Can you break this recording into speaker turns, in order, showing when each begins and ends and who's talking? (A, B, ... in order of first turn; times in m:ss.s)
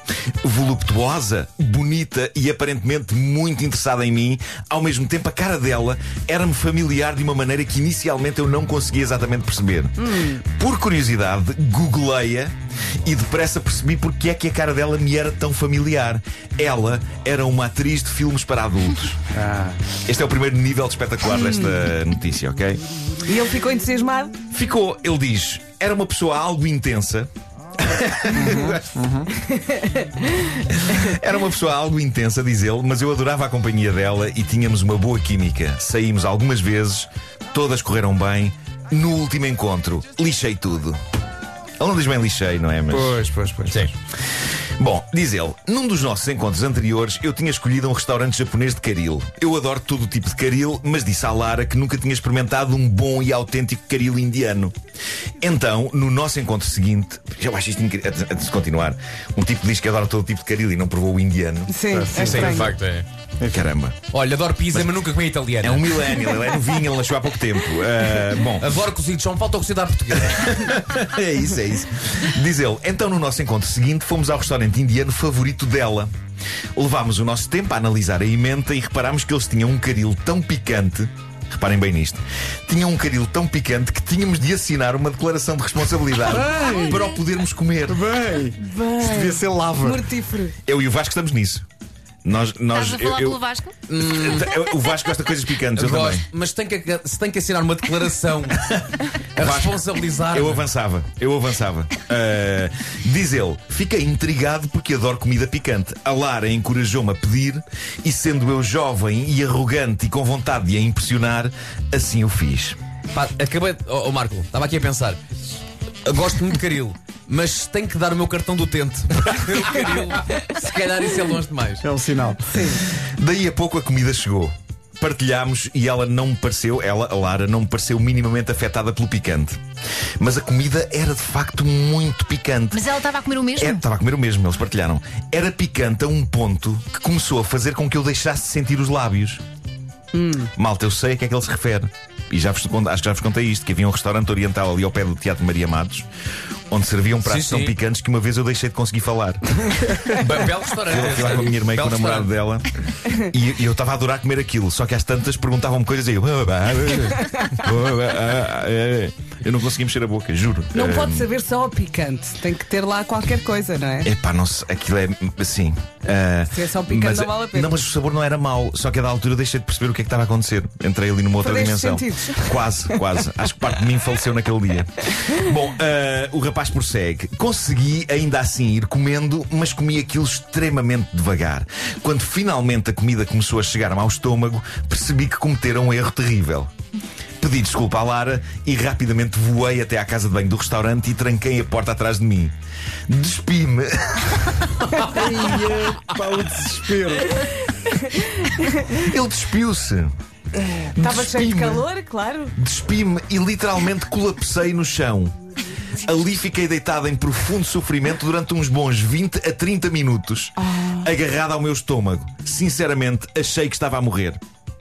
0:00.4-0:19.2 A
0:10.0-0:10.4 B
0:19.4-0:19.8 C
0:20.0-0:22.8 A
0:21.3-0:21.8 B
0:23.2-0:24.4 B
0:24.5-0:29.0 A
0:28.3-0:29.3 C
0:29.5-0:30.1 B
0:30.7-0:41.0 A
0:41.8-0:43.2 A
0:42.9-0:43.9 C
0:44.8-0:54.7 A
0:55.4-1:01.8 A
1:01.7-1:02.8 B
1:01.9-1:02.7 C
1:02.1-1:03.1 D
1:03.4-1:03.7 C
1:03.5-1:04.0 A
1:04.1-1:06.4 D
1:04.7-1:05.0 A
1:05.6-1:08.7 A
1:08.6-1:10.8 D
1:10.5-1:16.1 A
1:16.8-1:28.1 A
1:26.3-1:27.1 C
1:27.9-1:30.0 C
1:28.6-1:30.5 B
1:30.6-1:31.6 A
1:32.2-1:33.4 A
1:32.7-1:33.7 E
1:33.9-1:34.6 D
1:34.1-1:36.3 A
1:35.8-1:40.7 D
1:39.4-1:52.8 A
1:53.1-1:55.2 D
1:56.0-2:01.9 D
2:01.8-2:02.7 C
2:02.5-2:02.8 B
2:03.0-2:09.6 A
2:10.2-2:12.8 A
2:12.7-2:13.8 E
2:13.6-2:19.4 A
2:20.1-2:20.5 B
2:20.6-2:26.1 A
2:26.7-2:41.3 A
2:27.2-2:27.8 D
2:30.1-2:32.3 D
2:40.7-2:44.1 B
2:44.0-3:06.7 A
2:46.5-2:47.8 B
2:51.4-2:52.6 B
3:07.4-3:12.5 A
3:13.1-3:14.9 A
3:15.0-3:17.4 C
3:17.3-3:19.0 B
3:18.9-3:20.1 A
3:20.6-3:22.5 B
3:20.9-3:21.9 A
3:22.6-3:25.4 A
3:26.0-3:34.4 A
3:30.6-3:31.1 B